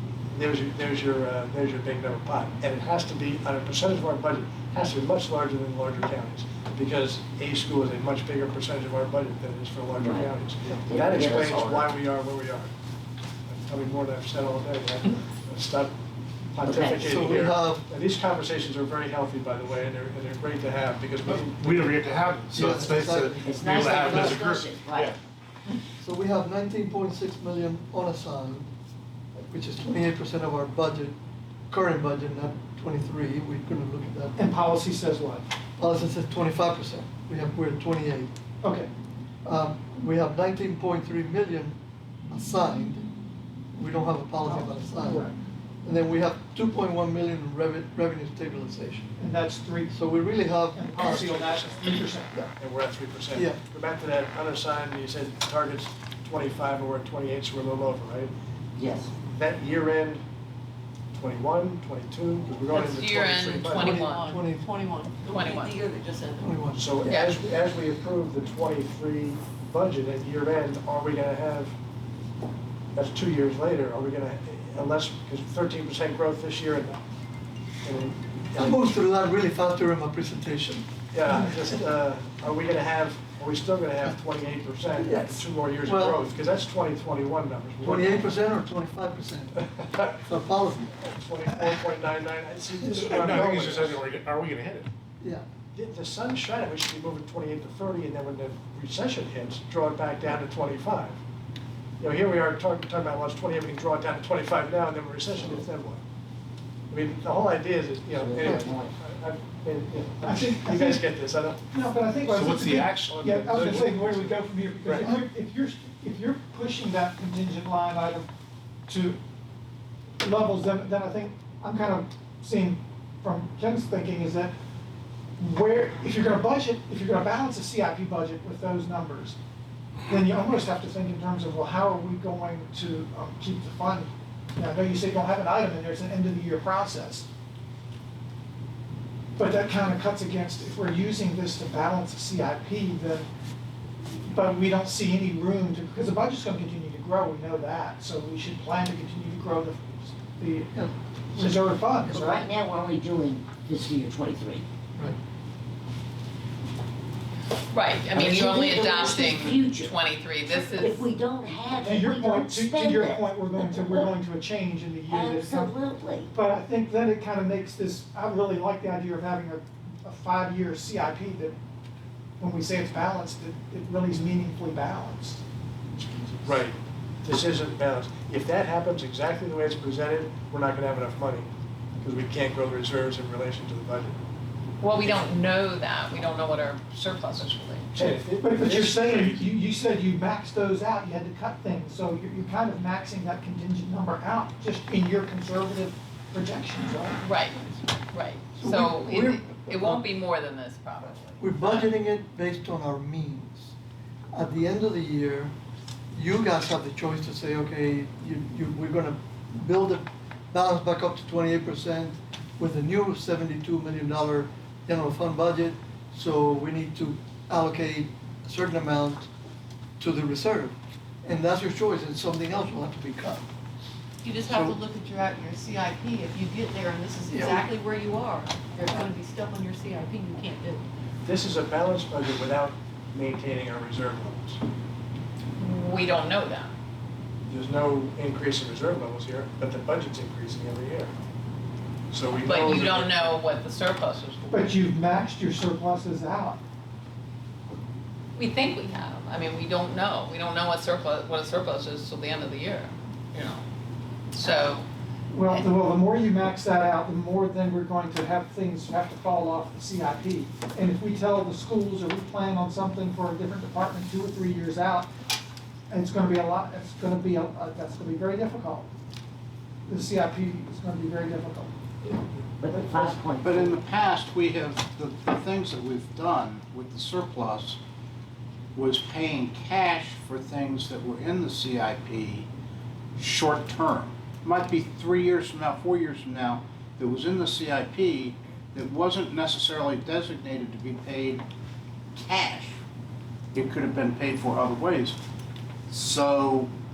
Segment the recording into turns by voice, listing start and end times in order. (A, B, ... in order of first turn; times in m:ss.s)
0:00.3-0:12.7 A
0:10.0-0:11.9 B
0:13.5-0:15.9 A
0:16.5-0:22.0 A
0:16.6-0:17.1 B
0:17.0-0:17.8 C
0:21.2-0:25.2 D
0:22.5-0:24.4 C
0:23.4-0:25.1 B
0:26.0-0:28.7 C
0:29.4-0:31.2 C
0:31.7-0:34.4 C
0:34.4-0:35.5 E
0:35.8-0:38.3 C
0:38.6-0:38.9 E
0:39.4-0:43.0 C
0:43.7-0:45.3 C
0:44.5-0:45.4 E
0:45.8-0:49.2 C
0:49.2-0:50.1 E
0:49.9-0:51.4 C
0:50.7-0:52.4 E
0:51.0-0:52.0 A
0:52.6-0:58.3 A
0:53.3-0:53.6 C
0:58.8-0:59.1 B
0:59.3-1:00.2 A
1:01.1-1:04.0 A
1:02.7-1:04.4 F
1:03.7-1:04.7 C
1:03.8-1:06.5 G
1:05.2-1:05.8 F
1:06.4-1:06.8 C
1:06.7-1:11.7 A
1:07.0-1:07.3 F
1:12.9-1:17.0 A
1:17.8-1:18.9 A
1:18.5-1:21.8 C
1:21.1-1:28.3 A
1:25.0-1:26.3 C
1:27.8-1:31.0 C
1:29.6-1:30.1 A
1:31.0-1:34.0 A
1:32.9-1:34.9 D
1:35.2-1:35.4 C
1:35.7-1:41.2 A
1:42.0-1:46.0 A
1:46.9-1:51.6 A
1:48.4-1:48.8 B
1:50.2-1:51.1 E
1:51.7-1:58.3 E
1:52.3-1:55.1 D
1:58.9-1:59.2 E
2:00.2-2:04.5 E
2:05.4-2:09.4 E
2:10.1-2:17.3 E
2:19.4-2:23.3 E
2:24.3-2:30.8 E
2:30.7-2:31.5 C
2:31.3-2:32.5 E
2:32.1-2:34.6 B
2:37.7-2:41.1 F
2:38.2-2:40.0 B
2:40.7-2:44.1 B
2:41.7-2:45.8 E
2:45.1-2:46.3 B
2:46.3-2:51.6 E
2:52.4-2:55.4 E
2:56.4-3:01.5 A
3:02.0-3:04.2 A
3:04.8-3:07.9 F
3:07.9-3:09.5 A
3:08.0-3:17.2 E
3:17.2-3:21.9 F
3:18.6-3:20.0 C
3:21.4-3:23.7 C
3:24.3-3:25.5 C
3:26.1-3:39.3 C
3:40.0-3:43.4 C
3:44.2-3:50.8 G
3:44.4-3:44.8 C
3:47.3-3:47.6 C
3:51.2-3:54.6 A
3:55.6-3:56.7 F
3:57.5-4:01.1 A
4:02.1-4:03.3 A
4:02.4-4:04.7 F
4:04.5-4:06.6 E
4:08.4-4:13.6 F
4:14.3-4:14.8 F
4:15.3-4:25.1 E
4:25.9-4:28.9 E
4:29.9-4:31.7 E
4:32.6-4:33.7 B
4:32.7-4:33.2 E
4:33.4-4:37.8 H
4:38.7-4:42.5 H
4:43.2-4:51.5 H
4:52.1-4:52.8 H
4:53.5-4:55.2 H
4:55.9-4:56.7 H